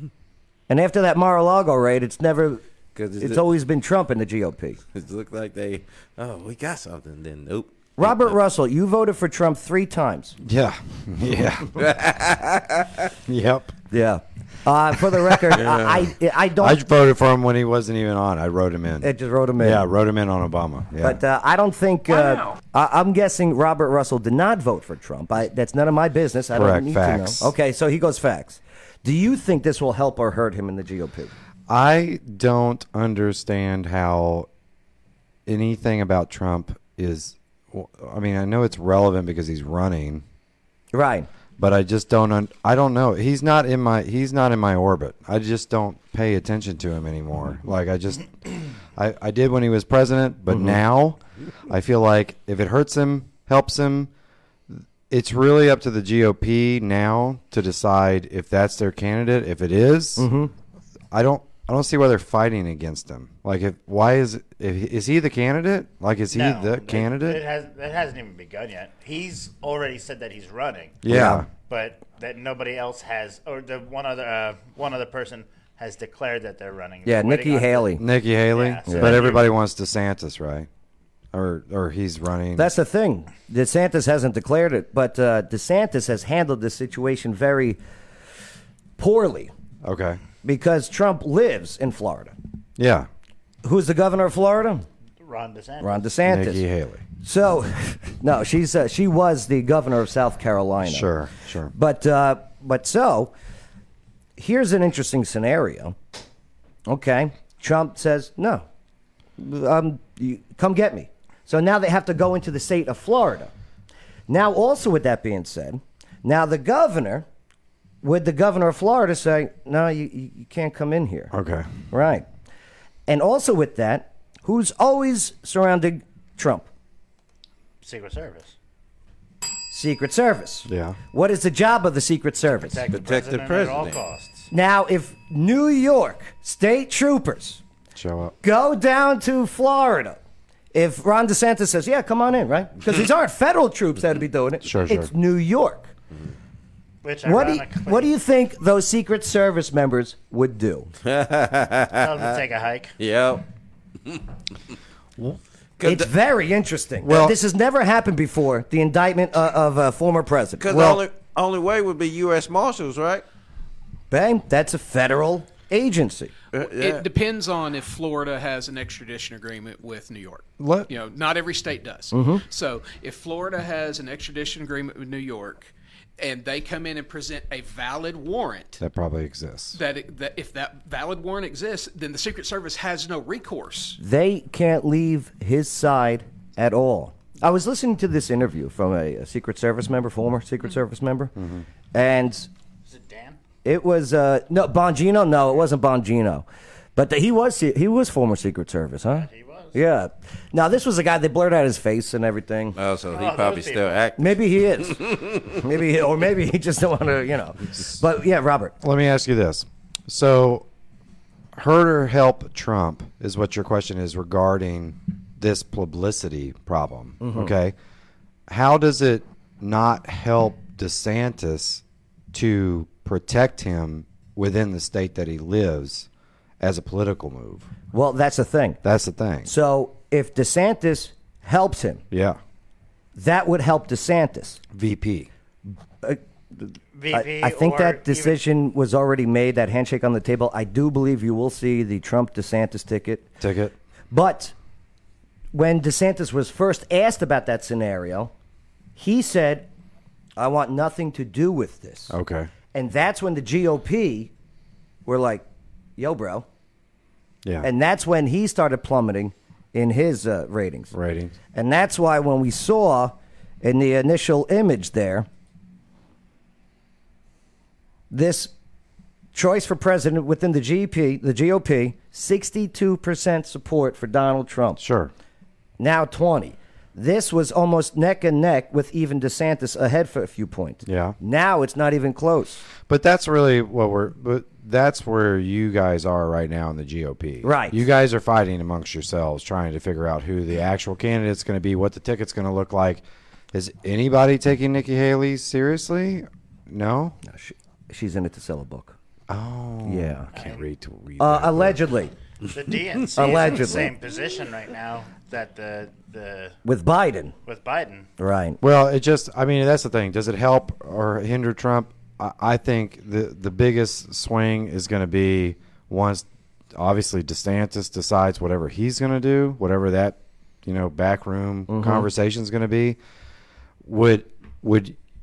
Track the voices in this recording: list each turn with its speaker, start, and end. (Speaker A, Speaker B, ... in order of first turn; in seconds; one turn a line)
Speaker A: 0.7-2.6
Speaker B: 2.9-3.4
Speaker A: 3.2-4.8
Speaker B: 4.9-8.3
Speaker A: 8.0-10.3
Speaker C: 10.4-11.8
Speaker B: 11.8-13.1
Speaker C: 13.2-13.8
Speaker A: 13.9-16.8
Speaker B: 15.5-16.1
Speaker C: 16.6-21.2
Speaker A: 19.0-19.9
Speaker A: 21.0-31.3
Speaker C: 26.5-27.5
Speaker C: 31.7-34.5
Speaker C: 35.5-40.2
Speaker A: 40.9-41.3
Speaker C: 41.6-54.1
Speaker A: 50.5-50.8
Speaker C: 54.7-60.3
Speaker A: 60.2-60.5
Speaker C: 61.1-67.4
Speaker D: 66.3-71.0
Speaker C: 71.0-71.5
Speaker A: 71.1-71.5
Speaker D: 71.7-78.0
Speaker A: 77.0-78.0
Speaker C: 78.0-80.7
Speaker D: 78.5-79.5
Speaker A: 78.8-79.2
Speaker C: 81.3-82.7
Speaker A: 82.5-87.8
Speaker A: 89.0-89.5
Speaker C: 89.8-90.2
Speaker A: 90.4-92.3
Speaker C: 92.8-93.1
Speaker A: 93.6-94.8
Speaker D: 95.2-96.1
Speaker A: 95.8-96.6
Speaker C: 96.2-97.1
Speaker A: 97.2-101.1
Speaker C: 100.8-101.7
Speaker A: 101.7-103.3
Speaker A: 104.4-106.0
Speaker A: 106.9-108.7
Speaker A: 109.4-113.5
Speaker A: 114.3-117.2
Speaker A: 118.0-121.3
Speaker C: 121.3-121.8
Speaker A: 121.9-122.3
Speaker A: 123.1-126.7
Speaker D: 127.8-128.6
Speaker A: 129.7-132.8
Speaker C: 130.7-131.0
Speaker D: 132.6-134.5
Speaker B: 132.9-134.0
Speaker A: 134.5-137.6
Speaker C: 137.9-138.3
Speaker A: 138.4-140.2
Speaker A: 140.7-145.9
Speaker C: 144.6-145.1
Speaker D: 147.0-148.1
Speaker A: 147.2-150.9
Speaker B: 151.0-152.2
Speaker D: 151.9-152.9
Speaker B: 153.0-153.4
Speaker B: 155.8-156.1
Speaker A: 155.8-161.0
Speaker C: 157.0-157.3
Speaker B: 160.6-163.2
Speaker A: 164.1-166.3
Speaker B: 166.5-167.1
Speaker E: 166.6-178.8
Speaker C: 170.6-170.9
Speaker A: 172.1-172.4
Speaker C: 178.8-179.8
Speaker E: 179.7-184.0
Speaker A: 184.0-191.3
Speaker C: 191.4-191.6
Speaker A: 191.9-192.5
Speaker D: 192.8-193.4
Speaker A: 193.6-202.8
Speaker D: 199.1-199.8
Speaker B: 202.7-204.4
Speaker D: 203.1-204.0
Speaker A: 204.2-208.8
Speaker B: 204.9-205.5
Speaker C: 208.8-210.7
Speaker C: 211.5-217.7
Speaker A: 217.2-217.5
Speaker C: 218.5-226.1
Speaker C: 226.6-227.7
Speaker A: 227.9-228.8
Speaker C: 228.8-229.5
Speaker A: 229.4-232.0
Speaker C: 232.1-232.4
Speaker A: 233.1-234.6
Speaker C: 234.7-235.3
Speaker A: 236.0-243.3
Speaker D: 236.9-238.4
Speaker C: 243.4-243.7
Speaker A: 244.1-244.5
Speaker A: 245.5-248.3
Speaker A: 248.9-249.7
Speaker A: 250.3-252.1
Speaker C: 252.1-252.5
Speaker A: 252.7-254.3
Speaker A: 255.0-255.4
Speaker A: 256.0-256.4
Speaker A: 257.6-260.9
Speaker C: 260.9-261.3
Speaker A: 261.5-265.3
Speaker A: 268.1-268.5
Speaker A: 269.3-274.8
Speaker C: 274.8-275.1
Speaker A: 275.8-282.6
Speaker C: 280.9-281.1
Speaker C: 282.8-297.2
Speaker A: 287.4-287.8
Speaker A: 297.2-298.9
Speaker C: 299.3-301.8
Speaker A: 299.8-300.3
Speaker D: 300.3-300.6
Speaker A: 301.2-302.1
Speaker D: 302.5-306.6
Speaker A: 303.1-303.9
Speaker A: 306.6-307.3
Speaker D: 307.4-308.1
Speaker A: 308.2-308.6
Speaker C: 308.6-323.0
Speaker A: 321.7-322.1
Speaker C: 323.8-324.9